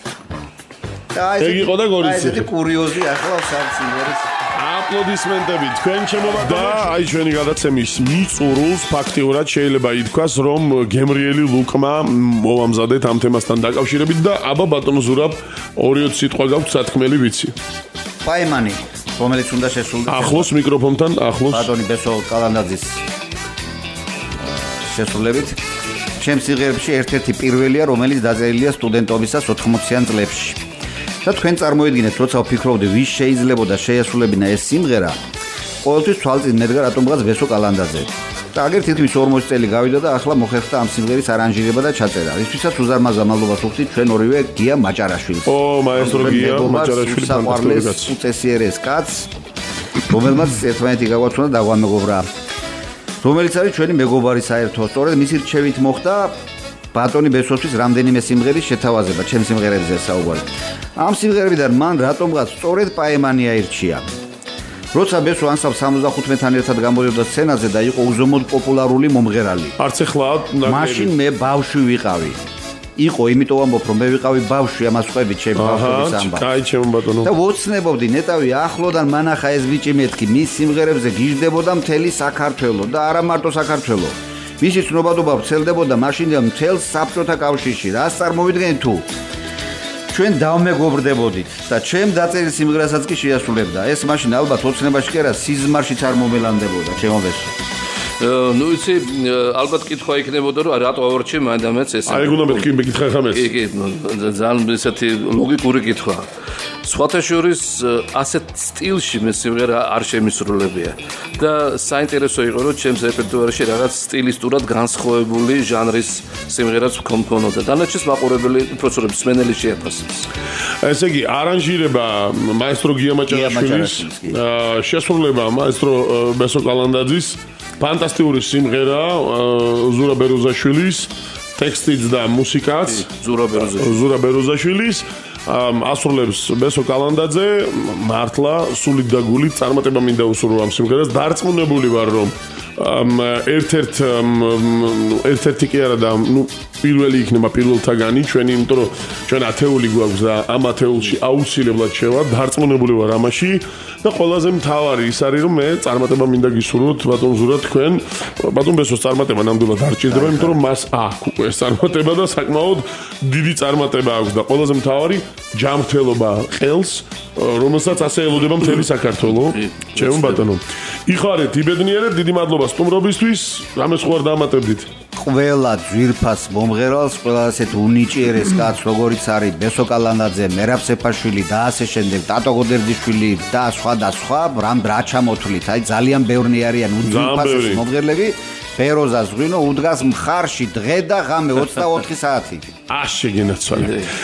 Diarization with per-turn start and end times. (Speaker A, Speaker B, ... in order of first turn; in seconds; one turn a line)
Speaker A: 1.1-4.3
Speaker B: 1.4-2.5
Speaker B: 4.5-17.5
Speaker A: 6.4-6.7
Speaker A: 18.2-20.5
Speaker B: 20.1-21.7
Speaker A: 21.5-23.0
Speaker A: 24.4-25.6
Speaker A: 26.2-30.6
Speaker A: 31.2-35.2
Speaker A: 35.8-49.3
Speaker B: 45.5-48.1
Speaker A: 50.1-52.3
Speaker A: 53.2-56.3
Speaker A: 56.9-64.0
Speaker A: 64.9-69.8
Speaker B: 69.8-71.1
Speaker A: 70.6-72.4
Speaker A: 73.0-76.5
Speaker B: 75.5-77.3
Speaker A: 77.2-89.0
Speaker A: 90.1-97.5
Speaker C: 98.2-102.8
Speaker B: 102.1-103.5
Speaker C: 103.3-106.3
Speaker C: 106.8-120.3
Speaker B: 120.8-133.1
Speaker A: 123.3-124.4
Speaker C: 132.8-134.0
Speaker B: 133.7-174.9
Speaker A: 160.1-160.5
Speaker C: 169.2-170.4
Speaker A: 175.2-192.7
Speaker B: 187.0-187.8
Speaker B: 192.9-194.1
Speaker C: 193.7-194.1